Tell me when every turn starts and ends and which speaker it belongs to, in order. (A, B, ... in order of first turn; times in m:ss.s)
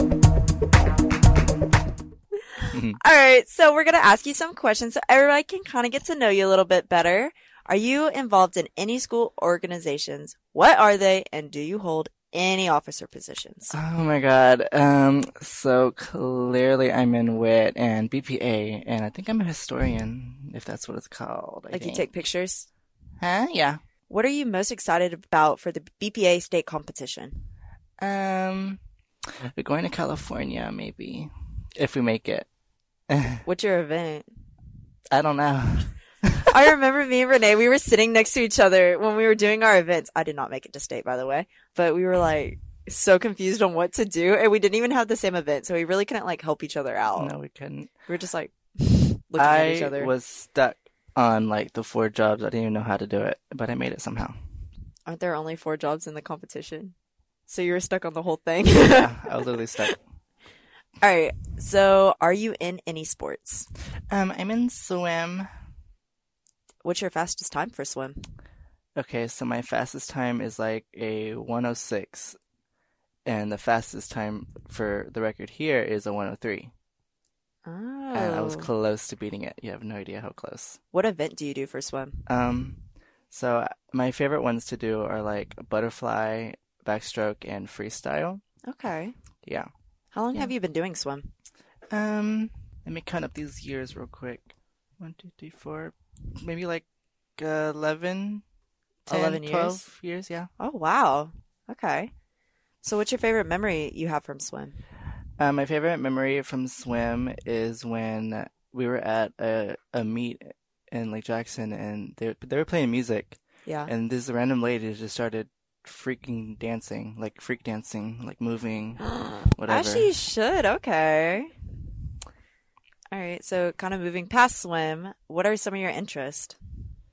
0:02.6-0:13.8 A
0:02.7-0:03.0 B
0:13.7-0:22.1 B
0:21.7-0:22.7 A
0:23.2-0:23.8 B
0:24.1-0:27.4 A
0:28.0-0:28.8 B
0:29.6-0:32.5 B
0:33.1-0:33.4 B
0:33.4-0:34.3 A
0:35.1-0:36.5 B
0:36.5-0:47.3 A
0:47.2-0:47.9 B
0:48.1-0:50.1 A
0:49.4-0:54.4 B
0:55.1-0:57.0 A
0:57.5-0:59.9 A
0:58.8-1:00.0 B
1:01.0-1:03.7 A
1:04.1-1:05.5 B
1:06.8-1:08.2 A
1:09.0-1:12.4 B
1:13.3-1:16.7 B
1:17.7-1:18.7 A
1:18.1-1:20.8 B
1:20.9-1:22.2 A
1:22.3-1:28.4 B
1:28.7-1:29.2 A
1:29.4-1:29.7 B
1:30.1-1:31.3 A
1:31.9-1:36.8 B
1:37.4-1:38.4 B
1:39.1-1:39.8 A
1:39.1-1:40.5 B
1:40.6-1:42.1 A
1:42.8-1:44.8 A
1:45.4-2:00.1 B
1:53.7-1:53.9 A
1:59.0-2:01.5 A
2:03.1-2:06.6 A